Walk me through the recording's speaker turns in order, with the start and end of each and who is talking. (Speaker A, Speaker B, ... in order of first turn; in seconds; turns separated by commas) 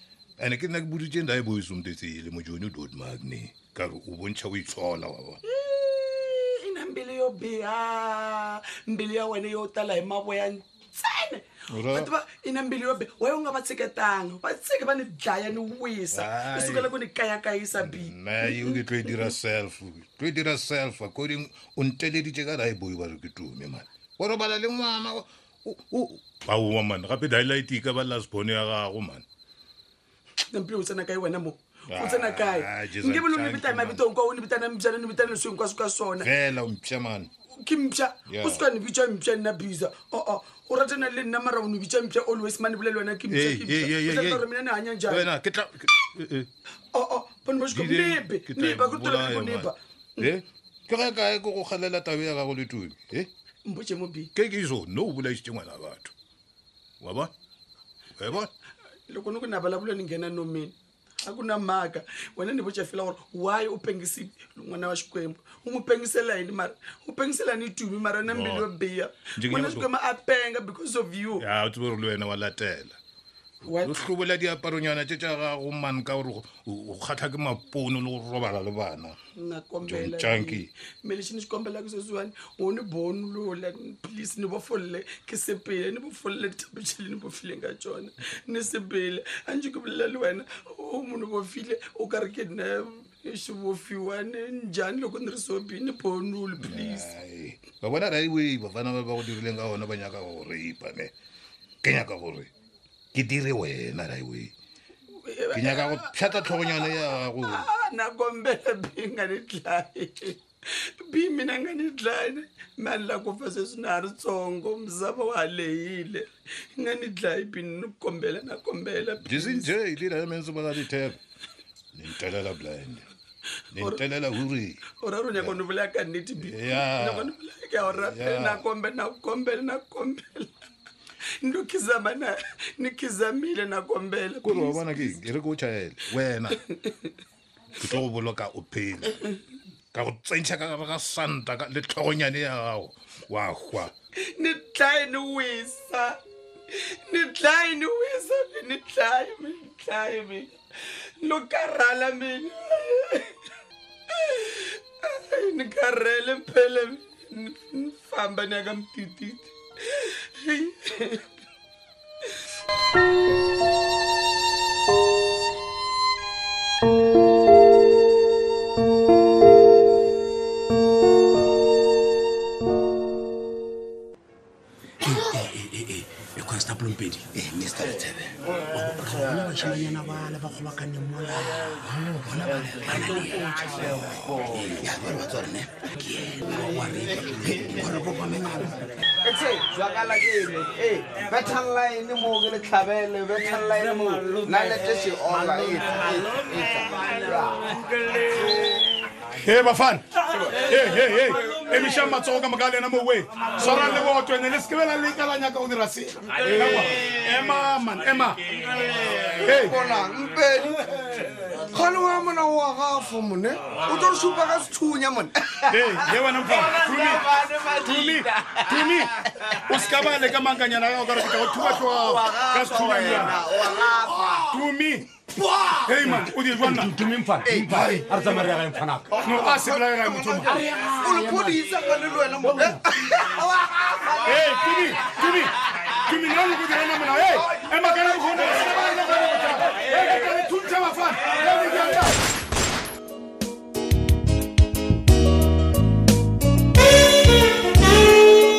Speaker A: 0.4-5.4, Speaker B: 5.5-19.3, Speaker A: 11.7-12.1, Speaker A: 16.1-16.9, Speaker A: 17.7-29.2, Speaker B: 30.5-36.3, Speaker A: 31.9-34.1, Speaker A: 36.2-37.3, Speaker B: 37.6-45.3, Speaker A: 38.2-38.7, Speaker A: 43.3-44.4, Speaker A: 45.1-46.5, Speaker B: 46.9-50.3, Speaker A: 47.7-53.3, Speaker B: 53.6-54.3, Speaker A: 54.3-56.1, Speaker A: 57.0-57.3, Speaker A: 58.2-58.5, Speaker B: 59.1-71.4, Speaker A: 68.2-68.7, Speaker A: 69.3-69.9, Speaker A: 71.4-73.0, Speaker B: 73.7-74.0, Speaker A: 73.7-79.2, Speaker B: 79.4-97.1, Speaker A: 79.8-80.7, Speaker A: 96.6-101.1, Speaker A: 101.8-102.5, Speaker A: 103.1-104.5, Speaker B: 105.2-110.4, Speaker A: 105.5-107.7, Speaker B: 111.0-119.7, Speaker A: 119.2-121.2, Speaker A: 121.9-123.1, Speaker A: 123.7-124.8, Speaker B: 124.9-130.5, Speaker A: 125.3-125.6, Speaker A: 126.4-127.3, Speaker A: 127.8-128.6, Speaker B: 131.4-135.3, Speaker A: 134.4-136.6, Speaker A: 137.8-139.2, Speaker A: 139.9-143.9, Speaker B: 144.3-146.2, Speaker B: 146.8-150.5, Speaker B: 151.2-153.3, Speaker B: 154.2-161.3, Speaker C: 175.0-177.3, Speaker D: 177.3-178.5, Speaker C: 178.6-184.8, Speaker D: 182.2-183.0, Speaker D: 184.5-186.5, Speaker C: 186.4-188.1, Speaker D: 187.5-188.7, Speaker E: 189.2-199.0, Speaker B: 194.1-194.9, Speaker F: 199.4-200.1, Speaker E: 200.3-200.7, Speaker F: 200.6-206.0, Speaker E: 201.3-202.2, Speaker E: 203.4-204.1, Speaker B: 203.6-204.0, Speaker E: 205.2-207.5, Speaker F: 206.5-208.4, Speaker E: 208.5-220.4, Speaker F: 209.4-209.7, Speaker F: 215.7-217.2, Speaker F: 217.8-219.1, Speaker F: 219.7-223.3, Speaker E: 221.1-224.7, Speaker F: 224.5-225.0, Speaker E: 225.2-226.3, Speaker F: 225.8-226.9, Speaker C: 225.9-229.3, Speaker E: 227.4-228.5, Speaker E: 229.1-235.3, Speaker F: 229.3-230.5, Speaker C: 230.5-231.7, Speaker F: 234.2-235.5, Speaker F: 236.0-242.0, Speaker E: 237.0-239.9